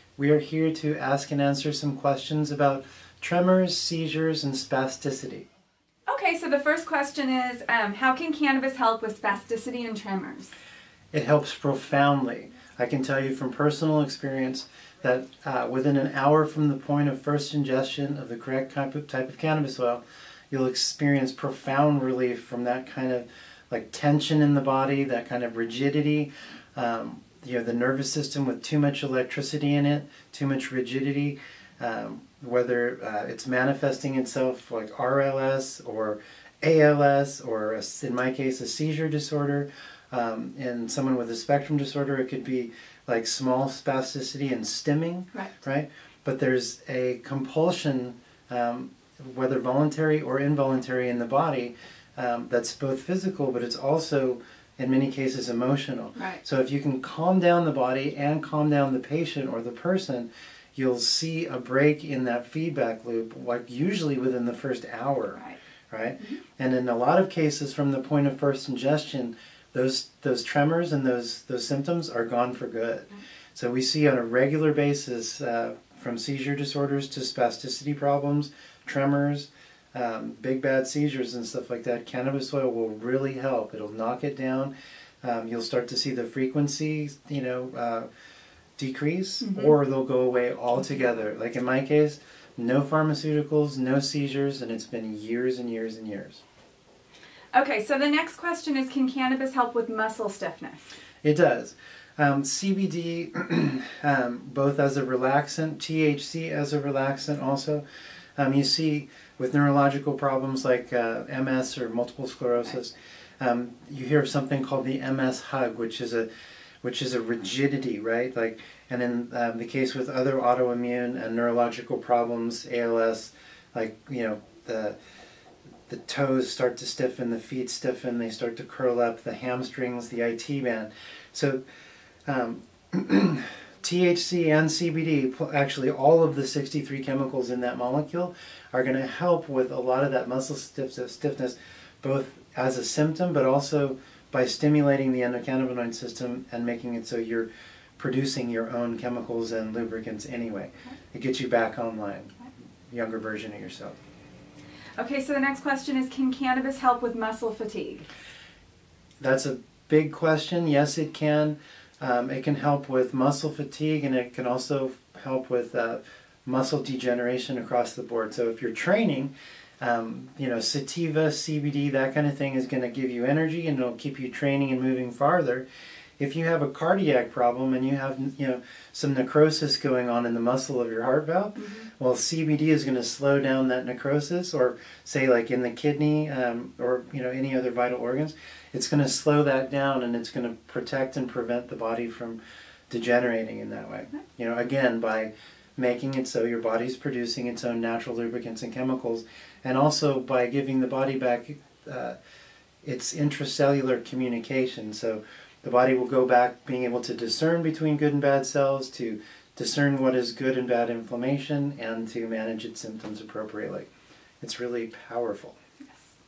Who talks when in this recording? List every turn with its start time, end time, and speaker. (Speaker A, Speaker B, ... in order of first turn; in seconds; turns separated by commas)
Speaker A: 0.2-5.5, Speaker B: 6.1-10.5, Speaker A: 11.1-65.4, Speaker B: 56.1-56.4, Speaker A: 65.9-88.1, Speaker A: 88.8-96.4, Speaker B: 89.4-89.7, Speaker B: 97.5-100.9, Speaker A: 101.2-107.8, Speaker A: 108.4-116.3, Speaker A: 116.8-125.0, Speaker A: 125.9-131.6, Speaker A: 132.3-152.3, Speaker A: 152.9-153.9, Speaker B: 155.0-158.1, Speaker A: 159.2-175.7, Speaker A: 176.2-192.4, Speaker B: 181.6-181.9, Speaker A: 192.9-202.2, Speaker A: 202.8-213.9, Speaker A: 214.4-215.6